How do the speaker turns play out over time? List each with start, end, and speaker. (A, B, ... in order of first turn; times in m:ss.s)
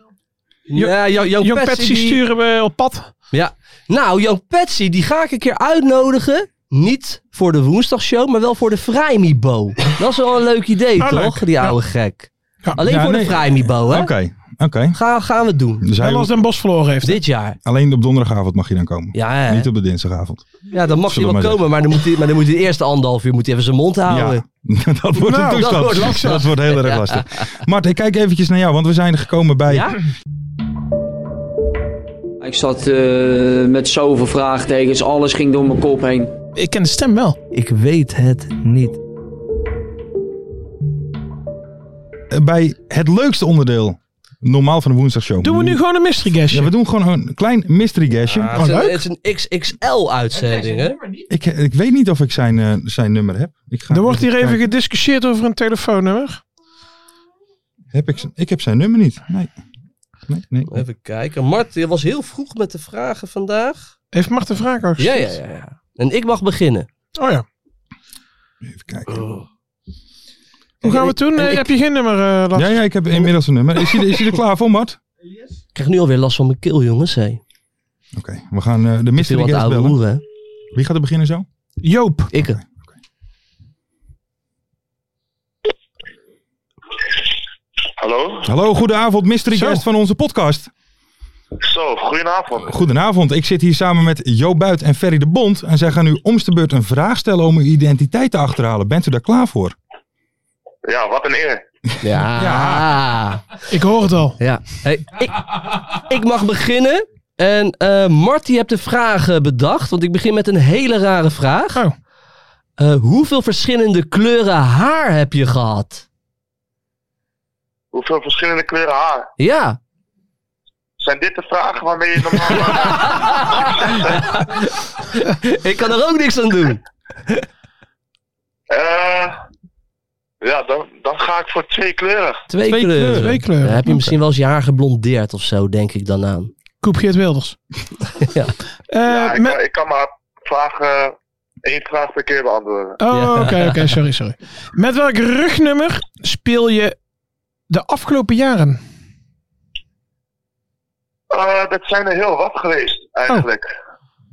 0:00.7-0:02.2 A
0:00.8-0:03.1 B
0:03.3-0:14.1 A
0:11.0-0:11.8 B
0:12.8-0:15.0 C
0:14.9-0:15.9 A
0:15.8-0:16.3 C
0:16.0-0:17.2 B
0:17.0-0:17.6 A
0:17.6-0:20.4 C
0:19.1-0:19.7 A
0:20.7-0:24.4 A
0:21.0-0:21.7 C
0:24.1-0:30.0 C
0:25.2-0:26.4 B
0:25.5-0:27.4 A
0:29.7-0:30.0 A
0:32.4-0:36.3 D
0:36.6-0:37.4 B
0:37.5-0:39.0 A
0:42.3-0:45.8 C
0:45.4-0:46.7 B
0:46.5-0:48.5 C
0:48.3-0:51.0 A
0:48.6-0:49.0 B
0:51.3-0:54.6 C
0:53.9-0:56.4 B
0:57.9-0:59.5 C
1:00.3-1:00.8 C
1:00.7-1:03.9 A
1:04.1-1:05.4 B
1:05.0-1:06.9 A
1:07.2-1:07.4 B
1:08.6-1:09.2 C
1:09.1-1:09.4 A
1:10.8-1:11.7 A
1:10.8-1:12.8 B
1:12.5-1:15.0 C
1:15.8-1:17.4 A
1:18.1-1:20.0 C
1:19.2-1:20.2 A
1:20.7-1:21.5 C
1:21.8-1:22.3 B
1:22.3-1:22.6 A
1:28.0-1:28.5 E
1:28.4-1:30.7 C
1:29.5-1:29.8 B
1:31.6-1:32.8 E
1:32.7-1:39.8 C
1:40.8-1:41.6 E
1:42.0-1:43.4 A
1:42.4-1:42.9 C
1:43.7-1:44.4 B
1:44.4-1:51.8 A
1:52.8-1:56.0 A
1:57.9-1:59.3 E
1:59.4-1:59.8 A
2:01.0-2:03.2 E
2:02.6-2:07.5 A
2:08.7-2:09.4 E
2:10.4-2:12.4 E
2:12.5-2:16.5 A
2:12.6-2:13.4 C
2:13.1-2:14.0 B
2:16.8-2:17.6 B
2:18.2-2:18.5 A
2:18.9-2:19.6 B
2:19.1-2:23.0 E
2:23.0-2:27.0 B
2:23.1-2:23.9 A
2:27.7-2:28.8 B
2:31.3-2:33.7 E